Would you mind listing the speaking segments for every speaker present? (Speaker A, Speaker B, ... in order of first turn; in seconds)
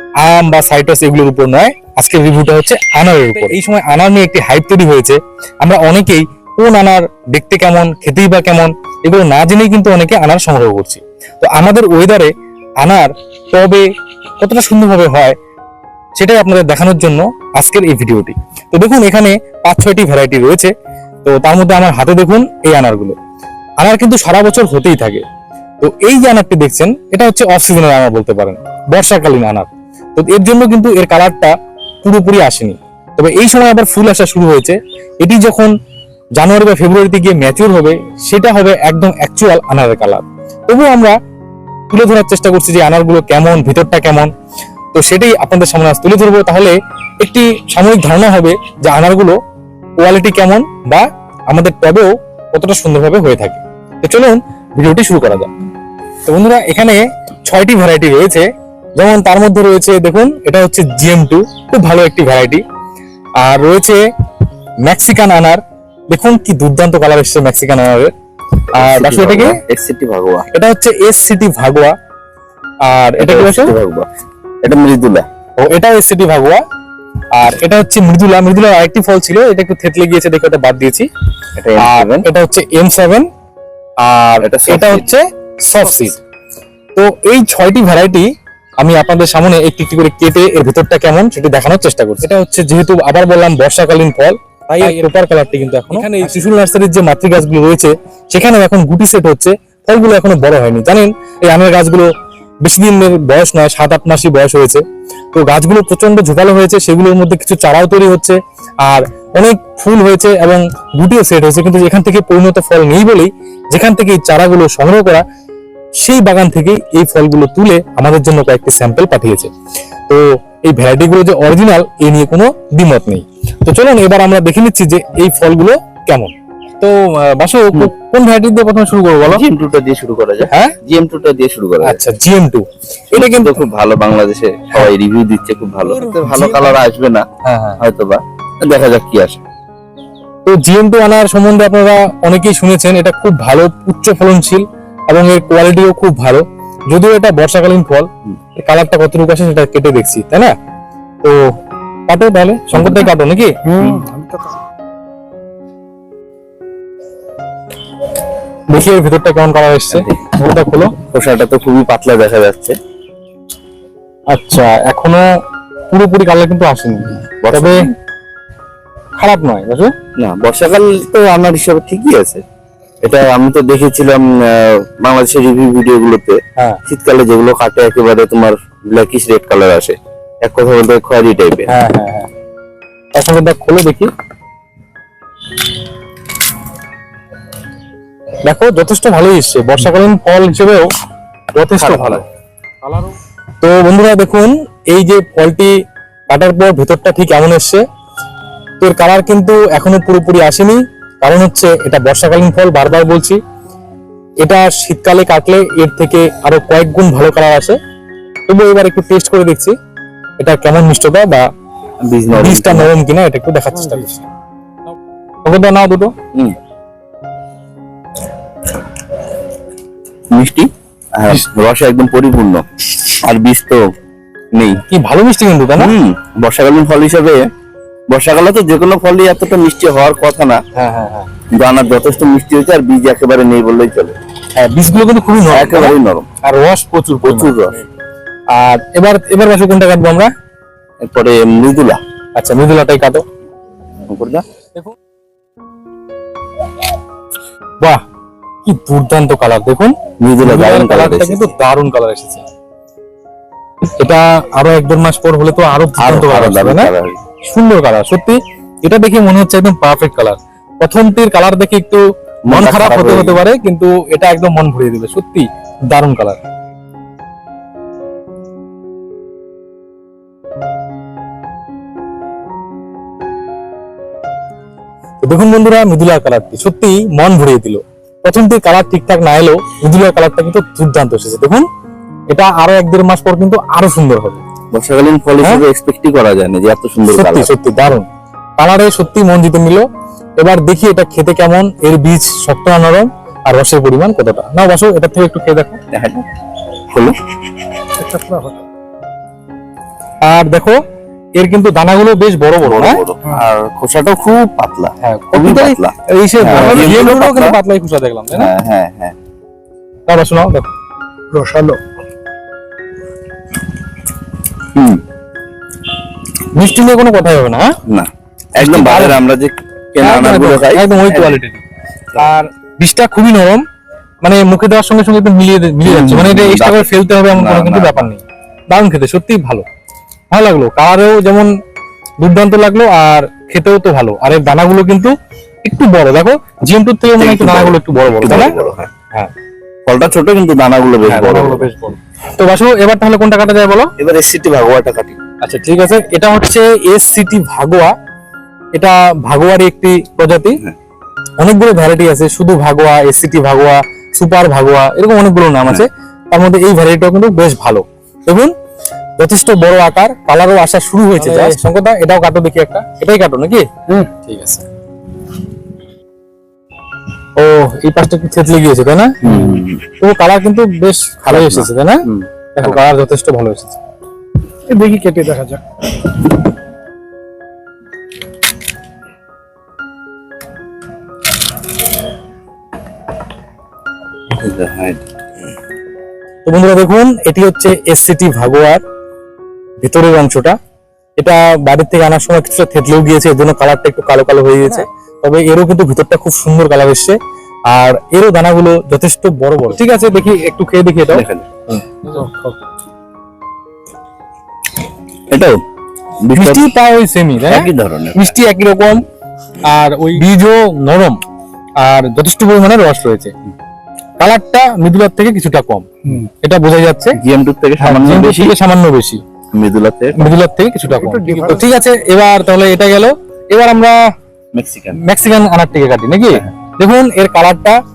Speaker A: 0.2-13.9, 14.4-15.4, 16.2-20.7, 21.2-23.1, 23.8-25.2, 25.8-35.7, 36.4-41.1, 41.9-44.3, 44.9-49.4, 50.0-55.5, 56.3-62.6, 63.4-64.0, 64.9-68.1, 68.8-69.6, 70.5-71.9, 72.9-73.8, 75.6-76.6, 77.3-81.1, 81.8-83.3, 84.0-86.2, 87.0-88.3, 88.8-102.1, 102.6-115.2, 116.0-119.5, 120.1-129.4, 130.5-130.7, 131.8-133.6, 135.9-136.8, 137.4-137.8, 140.4-150.5, 152.1-153.6, 158.7-160.9, 164.3-165.2, 165.9-167.9, 169.2-169.9, 181.7-182.3, 183.1-184.1, 188.5-190.9, 191.6-192.2, 193.6-195.7, 196.3-197.8, 198.8-203.4, 204.4-207.8, 208.5-209.7, 210.4-211.4, 212.3-214.2, 215.4-216.1, 224.9-225.9, 230.8-231.3, 234.6-237.5, 238.5-240.3, 242.3-243.2, 248.7-252.5, 254.0-256.9, 257.5-266.4, 275.2-281.7, 282.3-284.4, 287.1-288.1, 288.6-289.9, 290.4-295.8, 300.2-300.8, 301.4-303.0, 305.0-308.5, 310.1-310.7, 316.6-317.7, 318.6-319.2, 320.0-321.6, 322.2-323.6, 324.2-329.6, 330.3-331.5, 332.2-335.1, 335.6-338.6, 341.1-343.9, 345.4-347.9, 348.8-350.6, 351.4-358.5, 359.2-364.6, 367.4-369.2, 370.0-372.0, 372.6-373.8, 386.4-388.8, 389.8-390.6, 391.2-397.2, 397.7-401.9, 406.4-409.0, 409.6-411.2, 411.8-413.3, 414.2-417.2, 417.8-419.2, 420.2-424.0, 425.0-427.8
Speaker B: 68.8-70.5, 73.2-74.1, 74.6-75.2, 81.6-82.3, 84.4-85.1, 129.2-132.0, 133.1-137.2, 137.8-139.4, 152.8-153.0, 159.9-160.3, 161.0-162.8, 167.4-167.9, 170.2-172.4, 173.0-181.7, 191.8-192.2, 212.0-212.9, 220.3-222.6, 223.2-223.8, 224.5-224.8, 225.8-227.4, 228.1-230.6, 231.5-234.2, 235.5-236.3, 237.2-237.7, 241.0-242.0, 244.1-244.4, 250.2-251.5, 256.0-257.2, 262.5-263.4, 284.7-287.5, 295.9-296.2, 296.9-297.2, 302.6-307.6, 308.3-309.2, 314.8-315.0, 317.9-321.4, 325.8-328.1, 337.2-338.9, 339.9-341.7, 344.0-345.2, 369.2-369.8, 371.3-372.8, 384.3-385.0, 401.1-401.5, 405.3-405.6, 406.2-406.6, 407.4-408.3, 417.2-418.6, 419.5-420.3, 424.5-425.0
Speaker C: 153.7-154.5, 298.0-298.6, 311.3-311.8, 374.7-375.6, 402.1-402.6, 421.0-421.7